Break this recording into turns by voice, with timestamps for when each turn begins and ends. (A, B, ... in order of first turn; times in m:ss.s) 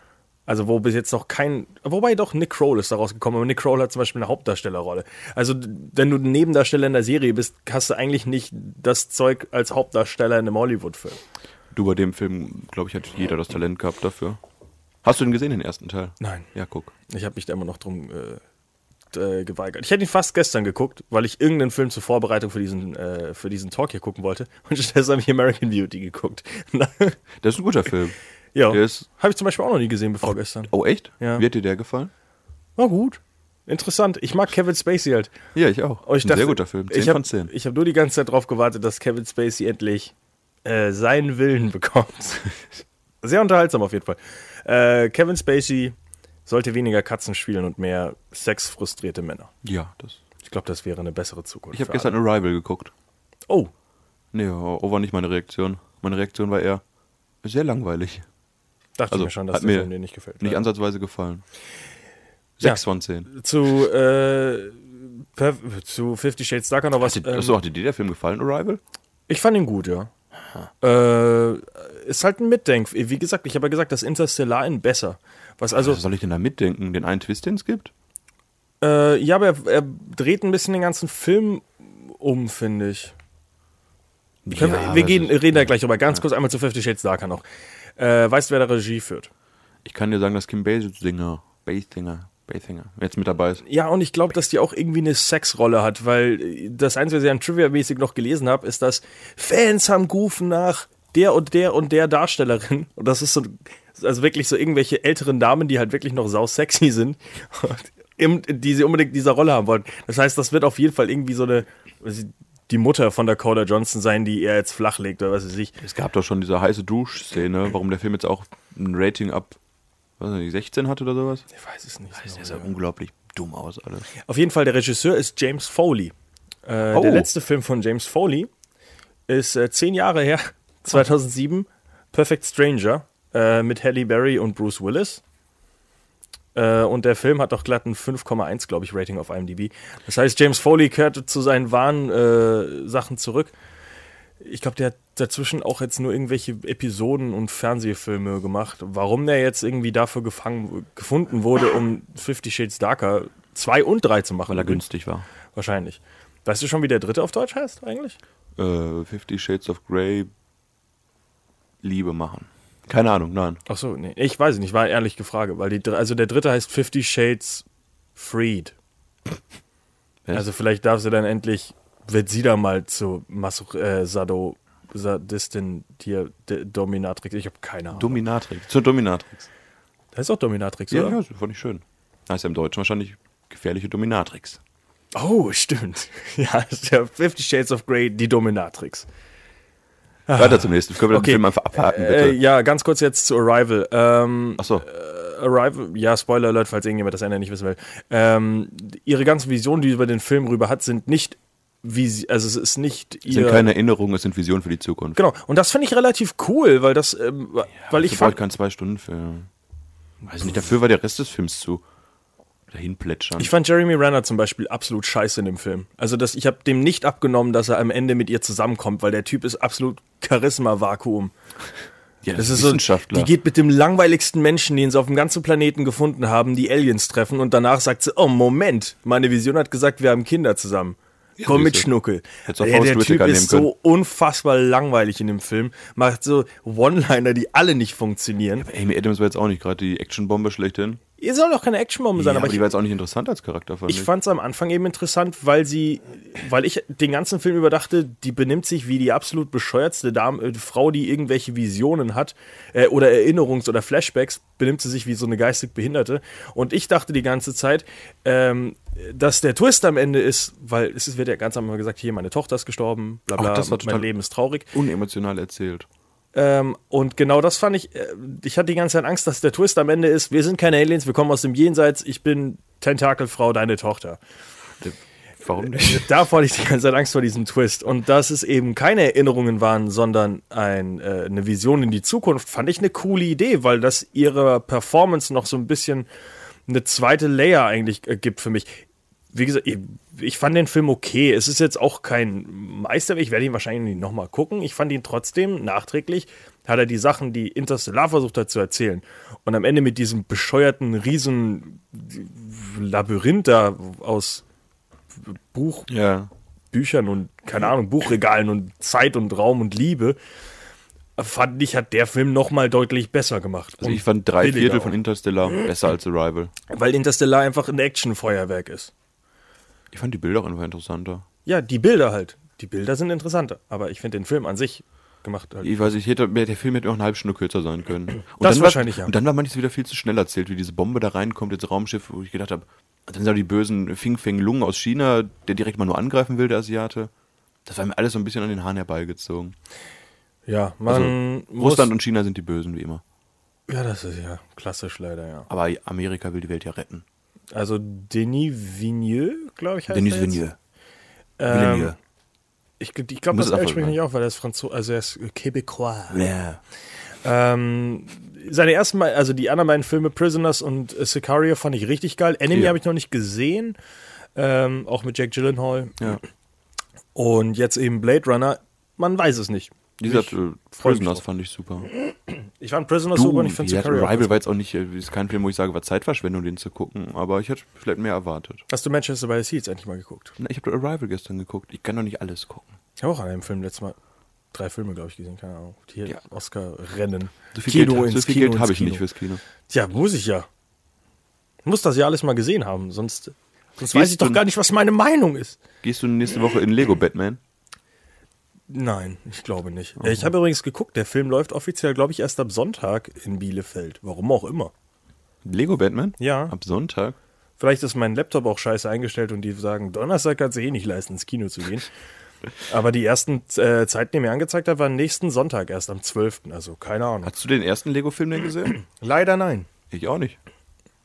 0:00.5-0:11.2 A
0:11.7-0:14.4 B
0:15.0-0:16.9 B
0:16.2-0:16.5 A
0:17.1-0:18.4 A
0:19.1-0:27.2 A
0:27.4-0:28.2 B
0:28.6-0:31.4 A
0:28.7-0:29.1 B
0:30.2-0:32.1 B
0:32.8-0:35.4 A
0:35.6-0:37.5 B
0:36.0-0:40.1 A
0:40.6-0:42.6 A
0:43.2-0:46.0 A
0:46.5-0:49.5 A
0:49.6-0:50.2 B
0:50.4-0:52.2 A
0:51.7-0:52.9 B
0:54.3-0:56.8 B
0:57.4-0:58.3 B
0:59.0-1:00.7 A
0:59.1-1:01.4 B
1:02.6-1:03.3 B
1:02.6-1:07.6 A
1:07.0-1:08.8 B
1:09.3-1:10.1 A
1:10.8-1:16.0 A
1:15.7-1:17.9 B
1:18.8-1:23.2 A
1:24.4-1:25.7 B
1:24.5-1:27.4 A
1:28.0-1:29.3 A
1:29.8-1:33.6 B
1:33.6-1:55.8 A
1:55.8-1:59.6 B
2:00.2-2:01.5 B
2:01.5-2:02.7 A
2:02.2-2:04.1 B
2:04.2-2:06.1 A
2:06.7-2:08.5 A
2:06.9-2:07.3 B
2:09.3-2:15.2 A
2:16.6-2:23.5 A
2:24.4-2:34.8 A
2:34.5-2:35.3 B
2:35.5-2:38.2 A
2:38.6-2:40.3 B
2:41.8-2:43.6 B
2:43.7-2:47.6 A
2:48.2-2:48.8 A
2:50.3-2:58.2 A
2:57.9-2:59.5 B
3:00.2-3:01.2 A
3:00.9-3:04.6 B
3:05.2-3:09.1 A
3:10.3-3:23.7 A
3:10.4-3:12.4 B
3:14.6-3:14.8 B
3:23.3-3:25.2 B
3:25.2-3:28.4 A
3:27.9-3:29.5 B
3:30.3-3:31.8 B
3:32.7-3:33.5 B
3:33.4-3:41.3 A
3:42.2-3:43.3 B
3:42.3-3:58.7 A
3:51.4-3:51.9 B
3:52.5-3:53.7 B
3:58.6-4:01.0 B
4:01.2-4:02.7 A
4:02.2-4:04.1 B
4:03.9-4:24.7 A
4:23.3-4:24.1 B
4:24.7-4:25.9 B
4:26.3-4:34.2 A
4:34.8-4:36.1 B
4:35.6-4:46.1 A
4:46.7-5:04.4 A
5:05.1-5:05.9 A
5:05.9-5:06.3 B
5:06.7-5:10.2 A
5:11.2-5:15.0 A
5:13.8-5:16.5 B
5:16.7-5:18.9 A
5:19.9-5:21.3 B
5:21.5-5:25.9 A
5:25.6-5:37.1 B
5:28.4-5:29.1 A
5:37.7-5:39.6 B
5:40.5-5:41.9 A
5:40.9-5:43.0 B
5:43.7-5:45.5 A
5:45.5-5:47.0 B
5:47.5-5:50.4 A
5:49.9-5:50.6 B
5:51.4-5:52.0 A
5:51.5-5:52.0 B
5:52.8-5:56.3 A
5:53.3-5:54.0 B
5:56.1-5:56.6 B
5:57.2-6:03.8 A
6:04.4-6:06.2 A
6:07.2-6:11.2 A
6:10.0-6:11.9 B
6:12.3-6:14.4 A
6:13.1-6:18.6 B
6:18.7-6:20.4 A
6:20.4-6:22.7 B
6:23.0-6:24.0 A
6:24.5-6:29.0 A
6:27.5-6:29.4 B
6:29.7-6:30.5 A
6:31.6-6:35.6 A
6:33.9-6:34.4 B
6:35.8-6:37.4 B
6:38.7-6:44.7 A
6:40.0-6:40.3 B
6:45.4-6:47.2 B
6:46.2-6:46.5 A
6:47.6-6:51.9 A
6:52.7-6:57.3 A
6:57.2-6:58.8 B
6:59.0-6:59.7 A
6:59.9-7:00.4 B